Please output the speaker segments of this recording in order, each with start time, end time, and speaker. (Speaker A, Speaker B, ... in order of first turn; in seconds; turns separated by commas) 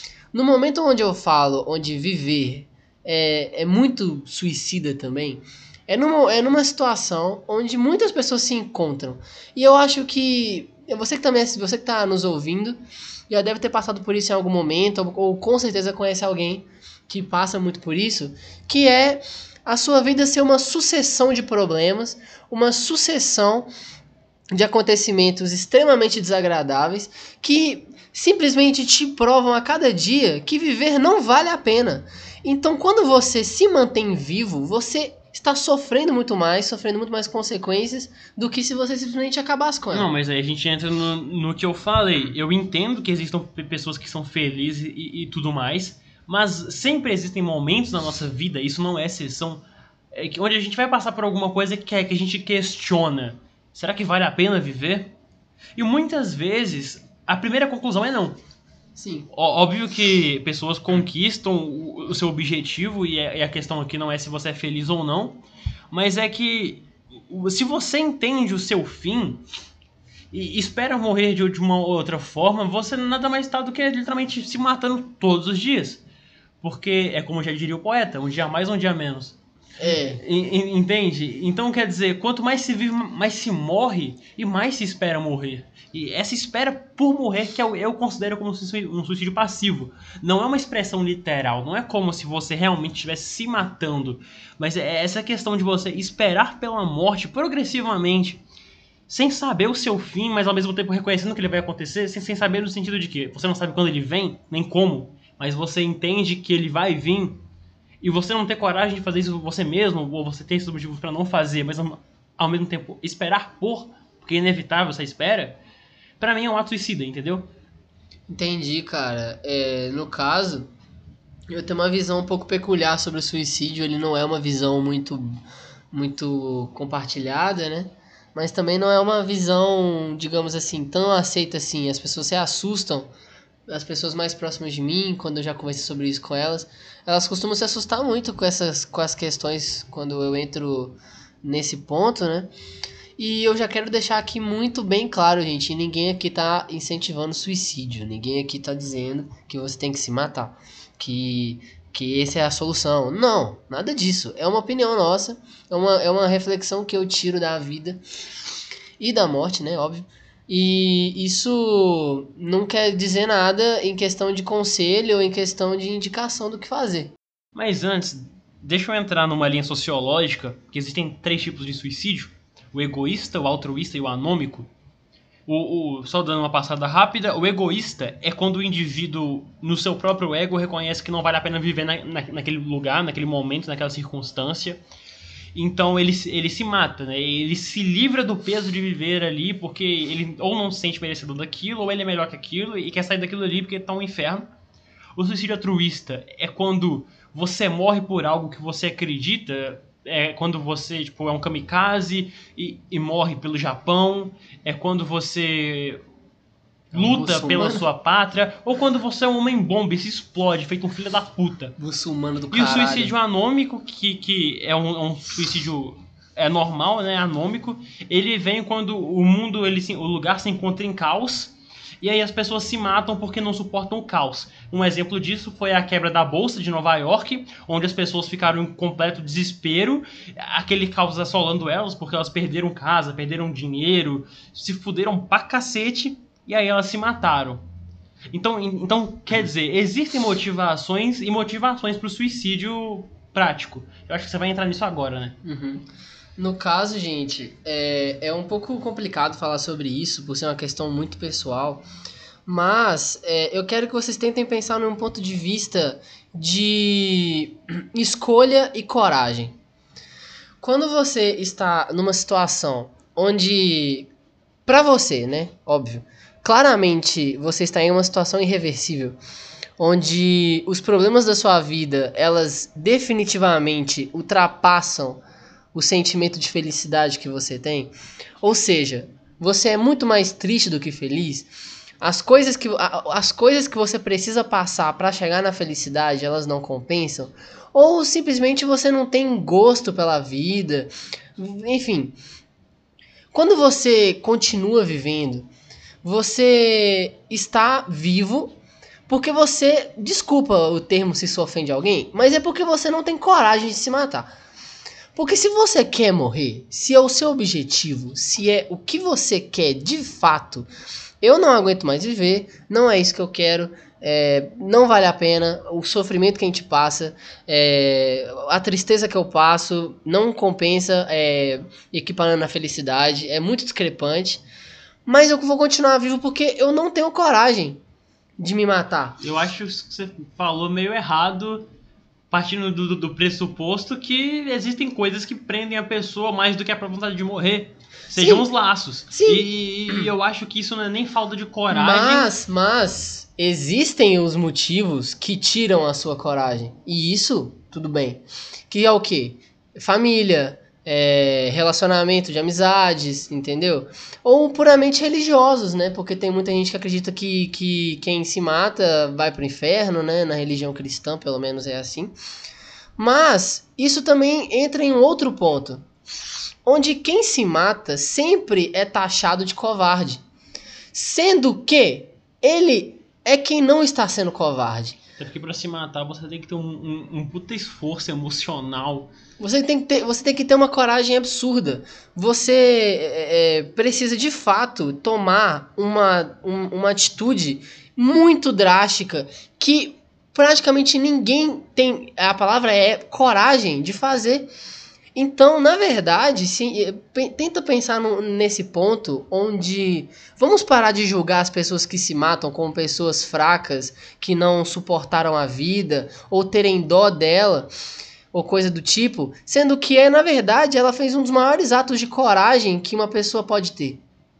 Speaker A: 0.3-23.7, Speaker A: 24.5-40.1, Speaker B: 39.9-55.1, Speaker B: 55.8-58.4, Speaker A: 59.0-59.3, Speaker B: 59.3-69.4, Speaker B: 70.3-76.0, Speaker B: 76.6-98.4, Speaker A: 79.8-80.2, Speaker B: 99.1-107.4, Speaker B: 108.0-115.6, Speaker B: 116.2-117.5, Speaker A: 118.3-120.7, Speaker A: 121.5-125.4, Speaker A: 125.9-133.1, Speaker A: 133.7-142.5, Speaker A: 143.2-158.0, Speaker A: 159.0-167.1, Speaker B: 167.5-174.7, Speaker B: 175.5-184.8, Speaker B: 185.5-194.5, Speaker B: 195.2-206.0, Speaker A: 206.9-207.8, Speaker B: 206.9-211.8, Speaker A: 211.8-213.1, Speaker B: 212.5-237.6, Speaker B: 238.3-245.4, Speaker A: 245.4-245.8, Speaker A: 246.4-251.8, Speaker A: 252.4-259.6, Speaker A: 260.6-264.1, Speaker A: 264.6-269.2, Speaker A: 269.8-275.2, Speaker A: 275.7-281.5, Speaker A: 282.0-292.1, Speaker A: 293.3-295.5, Speaker A: 296.0-304.3, Speaker A: 305.1-310.7, Speaker A: 311.2-324.4, Speaker A: 325.1-327.8, Speaker A: 328.4-329.2, Speaker B: 329.2-331.7, Speaker B: 332.3-342.3, Speaker A: 338.1-338.5, Speaker A: 339.1-340.1, Speaker A: 341.7-362.1, Speaker A: 363.0-365.8, Speaker A: 366.6-370.2, Speaker A: 370.9-375.0, Speaker B: 375.2-379.1, Speaker A: 379.4-394.5, Speaker A: 395.1-407.7, Speaker A: 408.3-414.0